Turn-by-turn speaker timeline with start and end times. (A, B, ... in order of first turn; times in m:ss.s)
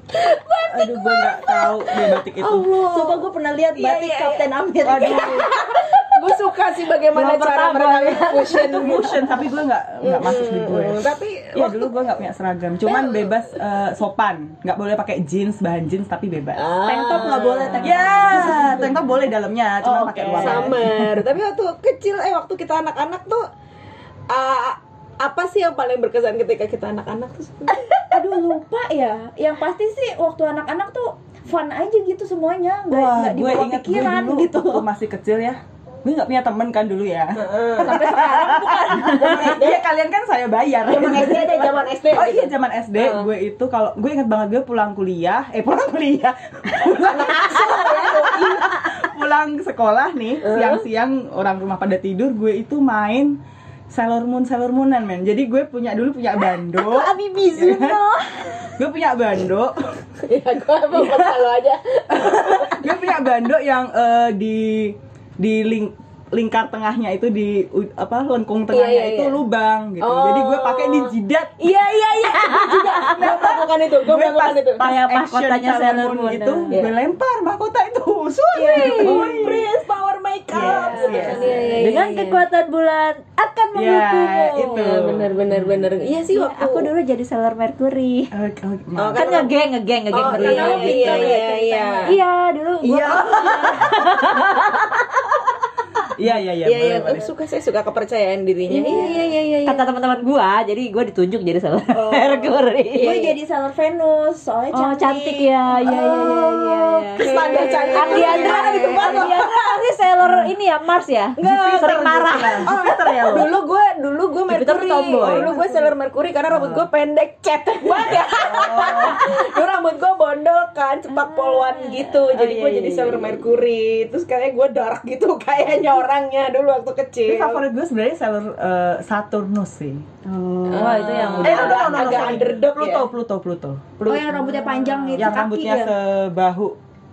0:00.1-0:09.2 A
0:00.7-0:02.8 B
0:02.6-0:05.6 C
0:04.8-0:05.5 B
0:07.1-0:09.1 D
0:07.9-0:08.6 C
0:08.5-0:11.0 B
0:10.0-0:12.0 A
0:11.5-0:16.6 B
0:12.8-0:13.4 A
0:16.6-0:18.1 A
0:16.8-0:19.0 C
0:17.8-0:21.1 B
0:19.8-0:20.7 C
0:20.4-0:23.4 A
0:24.3-0:28.0 A
0:28.1-0:34.8 C
0:32.9-0:53.4 B
0:37.4-0:39.8 A
0:37.8-0:39.2 C
0:40.9-0:43.3 A
0:46.9-0:48.8 A
0:50.4-0:50.8 A
0:53.9-0:58.0 B
0:56.8-0:58.7 C
0:58.6-1:00.0 B
1:00.3-1:02.9 A
1:00.9-1:01.4 B
1:02.1-1:11.6 B
1:08.7-1:09.4 A
1:10.0-1:14.8 A
1:12.4-1:13.5 D
1:13.2-1:19.7 B
1:14.8-1:16.7 D
1:18.6-1:22.4 A
1:18.7-1:19.4 D
1:18.8-1:19.2 C
1:20.5-1:21.6 B
1:20.6-1:24.7 D
1:20.6-1:21.7 C
1:23.7-1:25.9 B
1:24.3-1:24.7 C
1:24.6-1:26.9 A
1:26.2-1:28.3 D
1:28.3-1:29.4 B
1:29.0-1:29.5 A
1:29.2-1:31.4 D
1:30.1-1:32.1 A
1:30.1-1:33.9 C
1:32.8-1:33.9 B
1:33.7-1:35.0 D
1:36.2-1:37.3 B
1:36.6-1:39.9 A
1:38.7-1:39.2 C
1:38.8-1:39.1 D
1:39.7-1:43.2 D
1:41.9-1:49.4 C
1:42.9-1:43.3 A
1:44.7-1:47.2 D
1:45.8-1:49.4 B
1:47.2-1:49.5 A
1:48.0-1:52.7 D
1:50.2-1:50.5 B
1:51.4-1:53.5 B
1:51.4-2:07.6 A
1:54.5-1:55.6 D
1:55.2-1:55.9 C
1:58.6-1:59.3 D
2:01.2-2:03.4 D
2:07.3-2:10.2 B
2:10.3-2:11.5 C
2:10.7-2:13.1 A
2:10.8-2:12.4 D
2:11.4-2:16.8 B
2:14.1-2:15.9 C